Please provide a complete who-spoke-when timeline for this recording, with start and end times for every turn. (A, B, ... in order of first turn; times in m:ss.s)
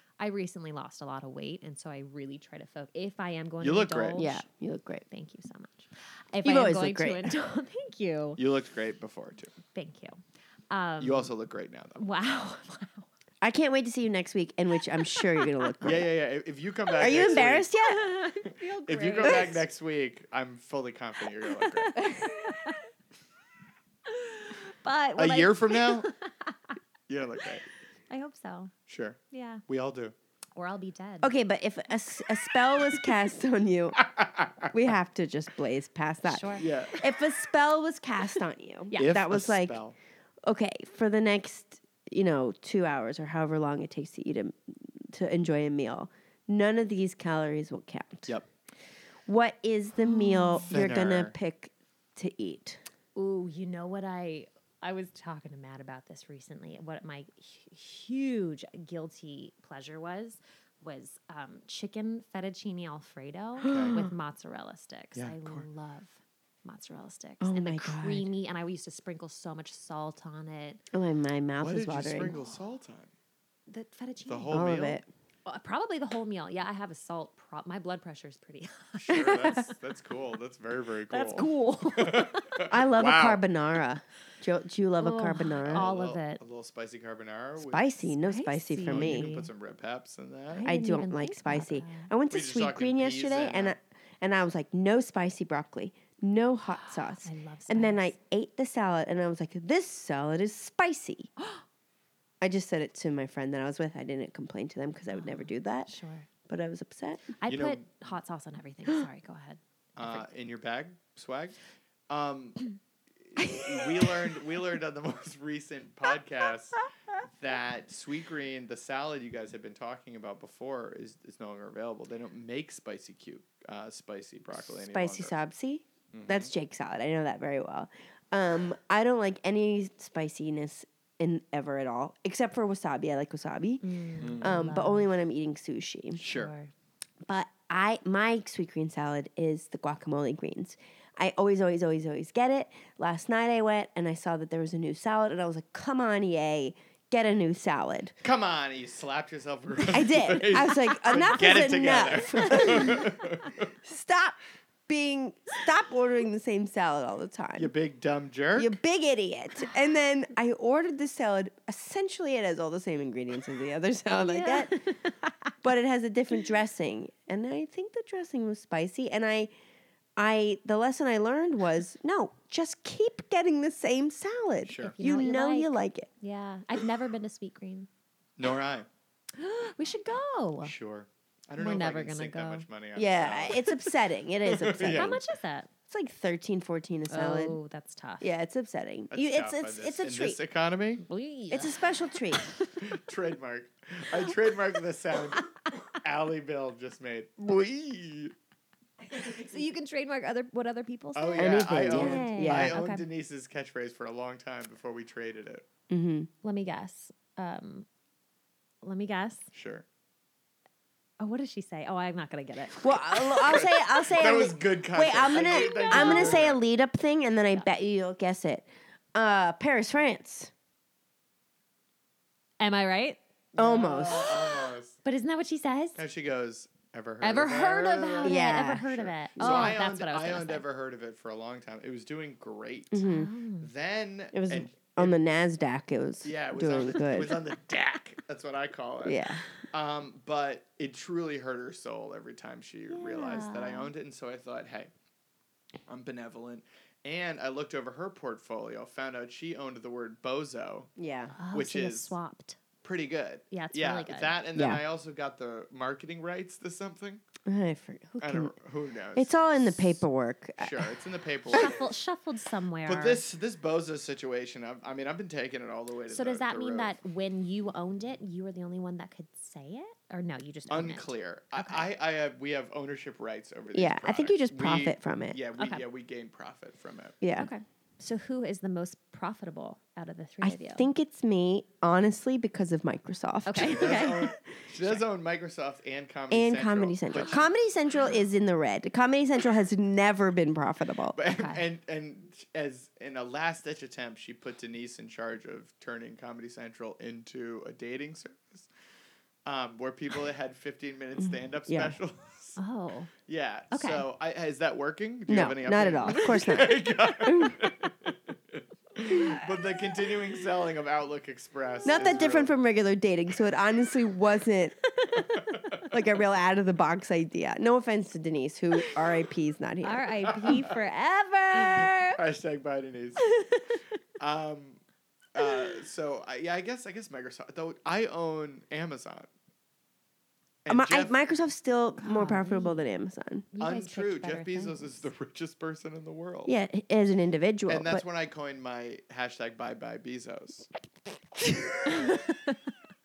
0:00.2-0:04.4 A
0:03.6-0:04.2 B
0:04.2-0:05.0 C
0:05.1-0:08.4 A
0:06.4-0:07.3 C
0:08.4-0:09.6 B
0:09.7-0:10.2 A
0:10.7-0:11.3 A
0:11.0-0:12.1 B
0:12.0-0:13.1 A
0:13.4-0:16.0 C
0:15.1-0:15.8 A
0:15.8-0:17.7 B
0:17.0-0:18.2 C
0:17.8-0:19.6 A
0:18.4-0:22.0 B
0:21.4-0:22.8 A
0:22.0-0:22.5 C
0:24.0-0:26.7 A
0:25.2-0:26.1 B
0:27.1-0:27.6 B
0:28.1-0:28.7 A
0:28.9-0:30.1 B
0:29.3-0:29.6 A
0:30.6-0:31.3 A
0:31.2-0:34.0 C
0:32.8-0:33.1 A
0:34.0-0:34.7 B
0:34.7-0:39.8 C
0:36.2-0:36.7 A
0:36.6-0:37.0 B
0:38.9-0:39.2 A
0:38.9-0:40.0 B
0:40.4-0:48.3 C
0:49.2-0:52.8 C
0:50.0-0:50.7 A
0:50.6-0:51.3 B
0:53.1-1:10.8 A
1:03.6-1:04.1 C
1:03.6-1:04.0 B
1:05.1-1:05.7 B
1:07.4-1:08.3 C
1:10.9-1:12.3 C
1:11.6-1:13.1 B
1:13.7-1:14.6 A
1:14.3-1:15.0 B
1:14.5-1:15.0 C
1:15.4-1:19.6 A
1:19.0-1:23.4 B
1:19.2-1:19.6 C
1:21.1-1:22.6 A
1:22.7-1:25.9 C
1:25.0-1:26.4 A
1:25.5-1:27.9 B
1:27.6-1:29.3 C
1:28.1-1:29.5 A
1:28.8-1:30.7 B
1:30.5-1:32.1 A
1:30.6-1:41.3 C
1:32.3-1:33.7 B
1:36.8-1:38.1 A
1:41.4-1:41.6 A
1:42.4-1:45.9 C
1:45.1-1:46.3 A
1:46.5-1:47.3 C
1:47.4-1:50.2 A
1:47.5-1:47.9 B
1:50.0-1:51.6 B
1:52.1-1:52.6 B
1:53.2-2:05.4 B
2:04.8-2:16.2 C
2:06.1-2:06.5 B
2:13.8-2:15.1 A
2:14.2-2:14.6 B
2:16.2-2:16.5 B
2:16.2-2:16.7 A
2:17.2-2:28.1 C
2:28.2-2:33.7 B
2:29.8-2:34.4 C
2:34.9-2:37.7 C
2:37.6-2:38.8 B
2:38.6-2:44.8 C
2:44.2-2:45.5 A
2:45.6-2:49.5 C
2:50.2-2:56.1 C
2:54.6-2:55.0 B
2:54.8-2:57.9 A
2:58.4-2:58.9 B
2:59.4-3:00.7 A
3:00.6-3:03.7 B
3:01.6-3:02.6 A
3:03.0-3:05.2 C
3:04.5-3:05.1 B
3:04.6-3:05.7 A
3:05.9-3:07.6 C
3:07.1-3:08.4 A
3:08.2-3:10.4 C
3:09.1-3:11.0 B
3:11.0-3:12.6 A
3:11.5-3:12.4 C
3:12.8-3:18.3 B
3:19.1-3:23.0 A
3:21.1-3:25.6 B
3:21.4-3:22.8 C
3:25.9-3:26.3 C
3:26.4-3:27.8 A
3:28.8-3:29.5 A
3:29.5-3:29.8 B
3:31.2-3:33.6 A
3:32.8-3:40.5 C
3:33.4-3:36.6 B
3:35.5-3:36.4 A
3:42.6-3:43.2 A
3:43.5-3:45.0 B
3:43.6-3:44.4 C
3:45.0-3:46.0 A
3:46.0-3:53.0 B
3:47.2-3:50.6 A
3:48.2-3:49.8 C
3:52.9-3:53.3 C
3:53.0-3:53.7 A
3:53.6-3:55.2 B
3:54.3-3:57.4 C
3:56.2-4:04.9 B
3:59.0-3:59.4 C
4:02.9-4:03.9 A
4:05.9-4:10.9 B
4:11.0-4:11.3 C
4:11.4-4:12.6 A
4:11.5-4:12.1 B
4:12.8-4:17.2 B
4:13.5-4:14.3 A
4:14.5-4:14.8 C
4:17.4-4:18.5 C
4:18.2-4:20.0 B
4:19.2-4:21.0 C
4:20.6-4:21.9 B
4:21.5-4:23.2 A
4:22.8-4:27.0 B
4:26.1-4:31.9 A
4:30.7-4:37.2 B
4:33.7-4:35.4 C
4:35.6-4:35.8 A
4:37.2-4:37.5 C
4:37.4-4:40.9 A
4:40.4-4:44.3 C
4:43.4-4:44.3 A
4:43.7-4:47.4 B
4:46.3-4:51.2 C
4:51.1-4:58.7 B
4:51.3-4:51.6 A
4:59.4-5:02.6 B
5:01.2-5:02.0 C
5:02.6-5:03.1 A
5:03.2-5:12.5 B
5:03.7-5:04.0 A
5:05.3-5:07.6 C
5:06.1-5:06.6 A
5:09.0-5:09.6 A
5:11.8-5:14.8 C
5:14.8-5:15.6 A
5:15.2-5:15.9 B
5:15.8-5:20.6 C
5:19.8-5:22.2 A
5:20.2-5:20.7 B
5:21.5-5:23.3 B
5:23.3-5:23.6 A
5:24.2-5:24.8 B
5:25.3-5:29.3 B
5:30.6-5:31.1 B
5:30.7-5:33.4 C
5:32.0-5:32.8 A
5:33.5-5:35.1 A
5:33.6-5:36.5 B
5:36.4-5:38.0 C
5:37.7-5:40.7 B
5:41.4-5:42.2 C
5:41.8-5:42.2 B